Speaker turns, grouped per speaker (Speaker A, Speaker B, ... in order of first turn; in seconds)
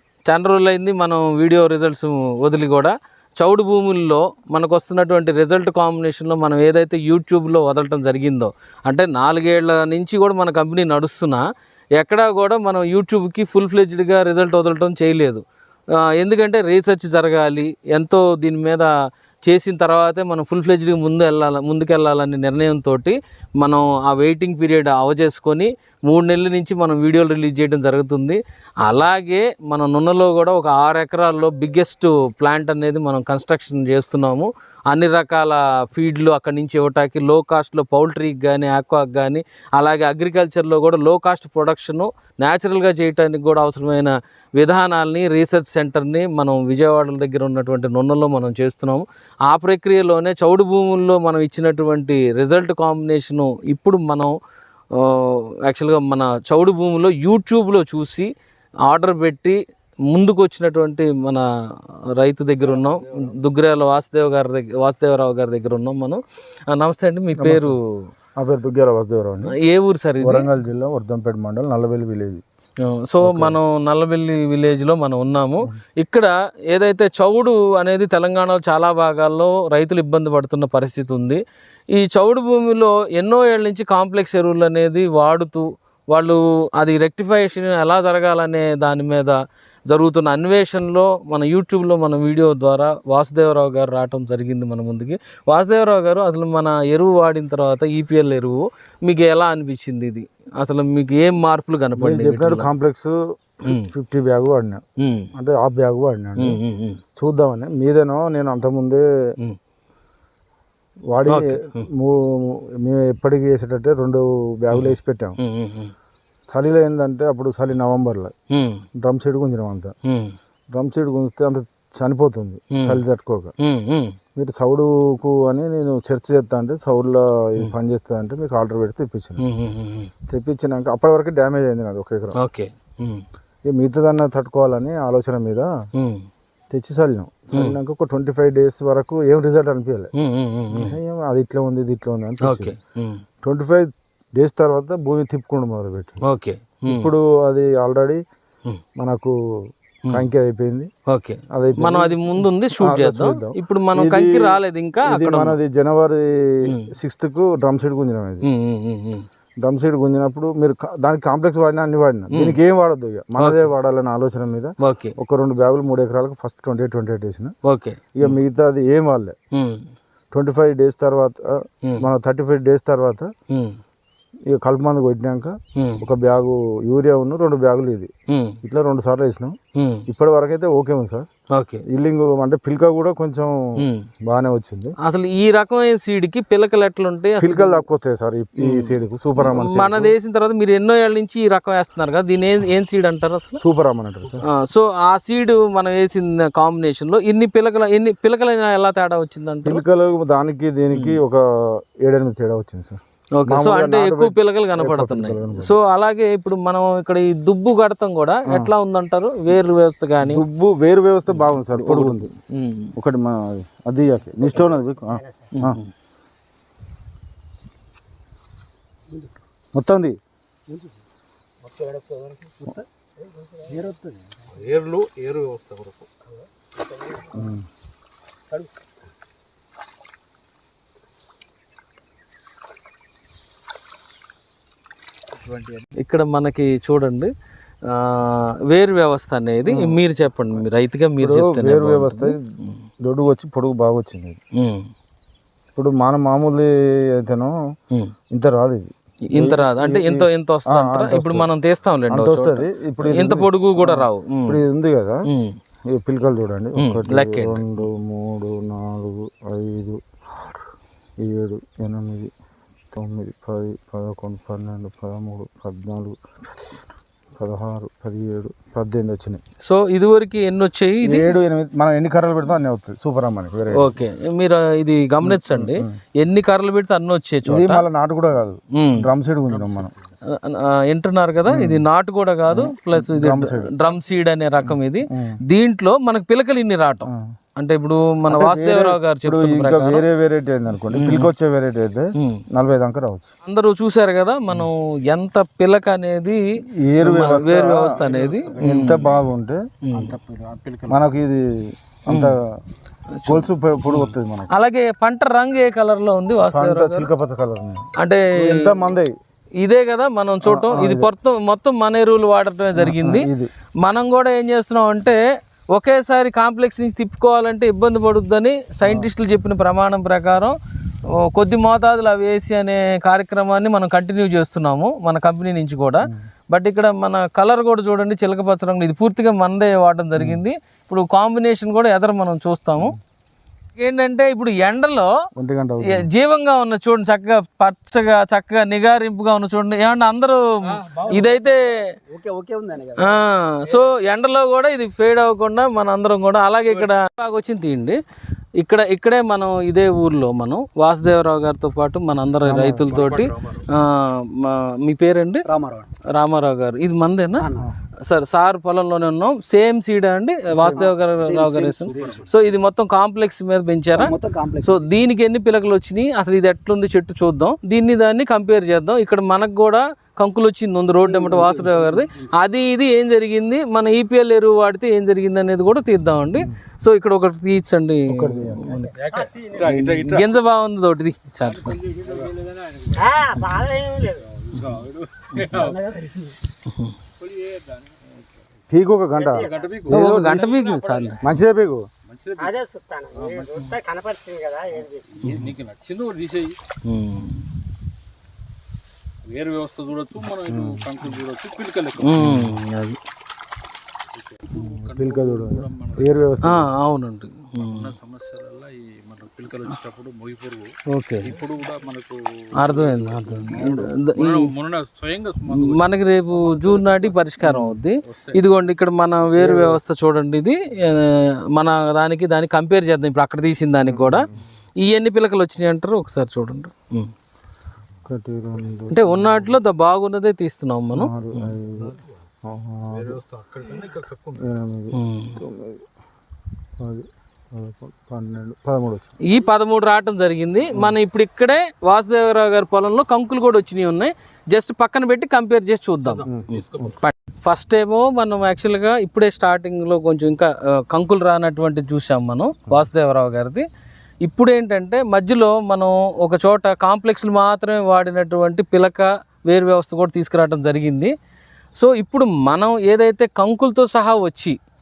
Speaker A: 0.3-11.4, 12.0-15.4, 16.0-18.9, 19.5-54.3, 54.9-58.3, 58.9-61.5, 62.2-67.8, 69.5-70.5, 72.8-81.4, 81.9-102.7, 105.0-105.3, 106.4-107.0, 111.3-111.8, 114.7-115.9, 118.5-118.8, 120.0-120.3, 122.7-123.0, 123.6-124.2, 129.4-130.1, 132.4-133.2, 136.0-136.3, 140.2-141.0, 142.4-143.2, 146.2-147.1, 151.1-155.6, 158.4-159.2, 162.3-162.6, 163.4-163.6, 164.8-165.2, 167.7-168.4, 169.5-169.9, 173.5-173.8, 175.8-176.1, 178.3-178.6, 179.8-180.1, 181.5-181.8, 183.8-184.1, 185.0-187.8, 188.6-193.6, 194.4-199.8, 203.4-210.4, 211.3-212.9, 215.6-215.9, 236.0-237.3, 237.9-242.7, 244.6-244.9, 249.3-254.6, 255.3-255.6, 256.8-257.9, 269.6-271.4, 273.8-277.8, 278.8-279.1, 280.3-290.0, 291.0-291.3, 292.2-292.4, 293.4-299.2, 299.9-300.1, 302.1-302.3, 303.1-307.1, 308.0-308.8, 309.6-313.3, 313.8-315.2, 315.7-320.6, 321.2-333.0, 333.8-335.1, 335.9-341.9, 343.0-348.0, 348.6-355.4, 356.1-357.5, 358.1-378.9, 379.6-381.8, 386.7-386.9, 389.9-391.2, 395.2-395.5, 396.8-397.4, 402.0-403.0, 406.4-407.9, 410.9-411.3, 412.6-414.5, 415.5-424.3, 424.8-427.1, 428.9-431.5, 434.9-435.4, 439.2-453.7, 454.2-461.1, 461.8-464.6
Speaker B: 67.4-67.8, 68.4-69.5, 70.2-72.4, 73.2-73.6, 102.0-104.8, 105.3-106.6, 107.2-109.0, 111.1-115.4, 116.5-118.3, 119.0-119.9, 120.7-123.5, 124.4-129.4, 130.3-132.4, 133.7-135.7, 136.7-140.1, 140.7-142.8, 143.4-146.2, 146.9-148.2, 149.0-149.3, 150.1-150.9, 151.5-158.5, 159.6-167.5, 168.2-169.4, 170.3-173.3, 174.5-178.1, 178.6-179.6, 180.1-181.3, 181.9-184.9, 187.4-190.2, 193.6-194.4, 199.7-201.4, 202.0-205.8, 208.5-208.7, 210.2-212.3, 213.0-215.8, 219.8-220.2, 227.3-227.7, 239.7-240.0, 241.2-242.4, 243.0-244.4, 245.8-247.6, 248.3-251.5, 252.1-255.2, 255.9-260.6, 261.2-262.3, 262.9-266.2, 267.4-269.4, 271.0-274.0, 275.2-276.0, 277.4-279.9, 281.5-281.9, 282.5-283.7, 284.6-285.4, 288.3-293.3, 296.8-299.6, 300.9-302.6, 303.3-304.5, 306.5-309.1, 310.4-311.1, 312.8-313.5, 330.2-330.4, 335.4-336.1, 352.4-353.1, 360.5-360.9, 378.1-378.8, 388.7-390.5, 391.2-391.9, 400.4-400.9, 402.2-402.6, 404.6-406.7, 417.4-417.8, 419.4-419.8, 423.9-424.3, 428.1-429.6, 430.9-433.2, 434.4-435.8, 436.8-439.1, 446.3-446.5
Speaker C: 221.7-222.7, 223.2-224.2, 226.8-227.4, 340.9-341.3, 342.1-343.2, 355.5-355.9, 357.4-357.7, 360.7-362.3, 363.9-364.9, 371.0-372.3, 385.5-386.4
Speaker D: 224.5-226.1, 235.3-235.9, 279.5-280.2, 298.0-299.0, 299.9-301.2, 352.9-353.7, 361.9-362.4, 378.9-380.4, 381.4-383.6, 384.2-385.9, 387.2-388.1, 389.3-391.2, 392.1-392.6, 393.1-393.8, 394.7-396.6, 399.2-402.3, 404.1-406.4, 407.6-417.1, 418.1-418.4, 432.9-434.5, 446.1-447.0
Speaker E: 383.0-384.2, 389.2-389.6, 392.4-395.0